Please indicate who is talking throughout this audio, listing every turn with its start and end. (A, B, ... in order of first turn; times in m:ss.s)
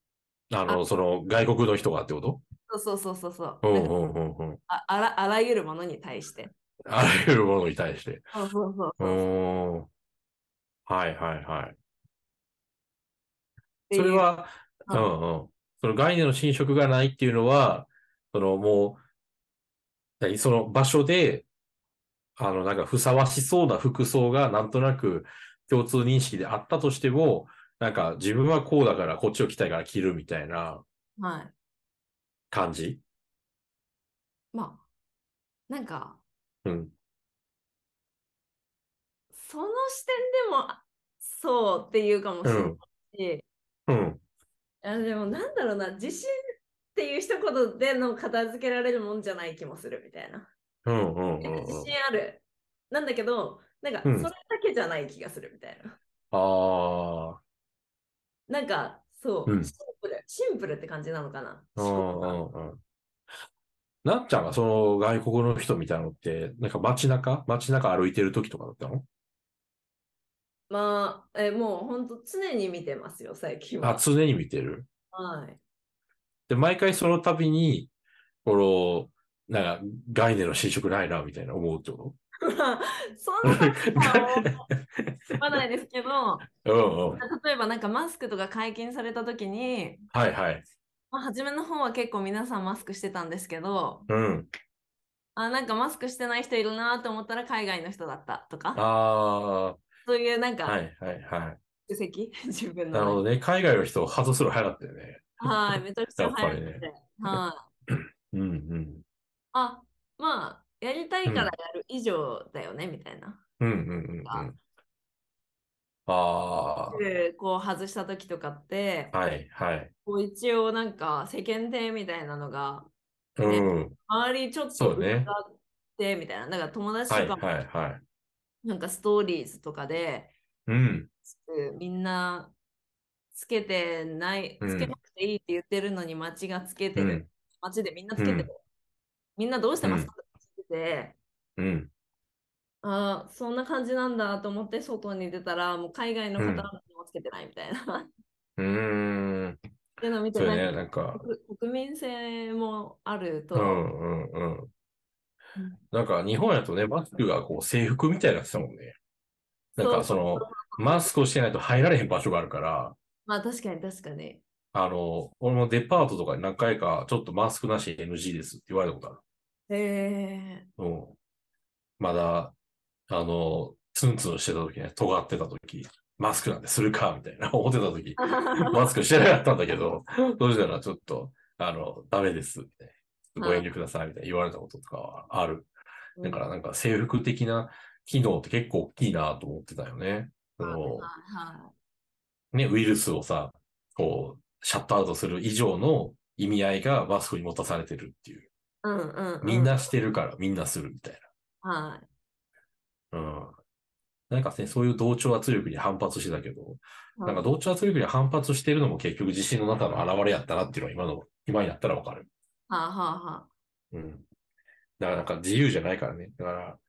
0:00.5-0:02.4 A
0:02.7-0:03.9 B
0:03.6-0:04.6 A
0:04.7-0:06.5 B
0:06.8-0:08.3 A
0:08.3-0:09.2 B
0:09.0-0:09.9 A
0:10.9-0:11.8 A
0:13.9-0:14.3 B
0:13.9-0:19.0 A
0:20.2-0:21.5 A
0:22.4-0:30.8 A
0:31.2-0:31.5 B
0:32.5-0:33.0 A
0:34.5-0:34.8 B
0:35.7-0:36.2 B
0:36.6-0:36.9 A
0:39.3-0:43.4 B
0:42.4-0:42.8 A
0:43.9-0:44.2 A
0:44.8-0:46.3 B
0:46.9-0:50.5 B
0:50.8-0:51.9 A
0:51.4-0:56.0 B
0:54.0-0:54.3 A
0:56.3-0:57.4 A
0:58.5-1:02.4 B
0:59.4-0:59.7 A
1:01.8-1:02.8 A
1:04.0-1:09.0 A
1:10.7-1:14.0 B
1:13.8-1:14.8 A
1:15.1-1:15.6 B
1:16.5-1:17.9 A
1:18.4-1:22.2 A
1:22.4-1:24.7 B
1:23.4-1:25.4 A
1:25.4-1:26.4 B
1:26.5-1:27.2 A
1:27.2-1:30.0 B
1:30.1-1:30.6 A
1:31.1-1:34.1 B
1:34.1-1:34.5 A
1:35.3-1:38.8 B
1:38.7-1:39.8 A
1:40.0-1:40.8 B
1:40.6-1:41.6 A
1:41.9-1:43.2 B
1:42.9-1:49.0 A
1:45.4-1:47.7 B
1:49.5-1:53.4 B
1:51.2-1:51.5 A
1:53.6-1:54.6 A
1:56.1-1:57.0 A
1:56.9-1:59.1 B
1:59.1-1:59.9 A
2:00.0-2:02.9 B
2:03.4-2:04.0 A
2:03.4-2:07.4 B
2:04.8-2:05.3 A
2:07.1-2:08.0 A
2:08.6-2:10.3 B
2:10.7-2:11.1 A
2:11.2-2:12.5 B
2:13.3-2:18.6 B
2:14.6-2:14.9 A
2:17.0-2:17.3 A
2:18.2-2:18.5 A
2:19.4-2:21.2 B
2:19.8-2:20.1 A
2:21.6-2:21.9 A
2:22.8-2:28.1 B
2:26.4-2:26.7 A
2:28.6-2:29.6 A
2:30.0-2:33.8 B
2:30.3-2:31.2 A
2:33.5-2:34.7 A
2:35.9-2:39.0 A
2:39.8-2:43.0 A
2:39.8-2:41.1 B
2:43.2-2:44.4 B
2:44.7-2:49.2 A
2:49.7-2:50.7 B
2:50.8-2:51.2 A
2:52.0-2:52.5 A
2:53.1-3:05.7 A
2:58.2-2:58.9 B
3:03.4-3:03.7 B
3:06.2-3:06.4 B
3:06.2-3:11.1 A
3:10.6-3:11.7 B
3:12.5-3:18.5 A
3:18.8-3:19.8 B
3:19.4-3:21.2 A
3:21.6-3:22.1 B
3:23.1-3:23.5 A
3:24.3-3:32.3 A
3:27.2-3:27.4 B
3:32.7-3:33.5 B
3:33.9-3:34.2 A
3:35.0-3:36.8 A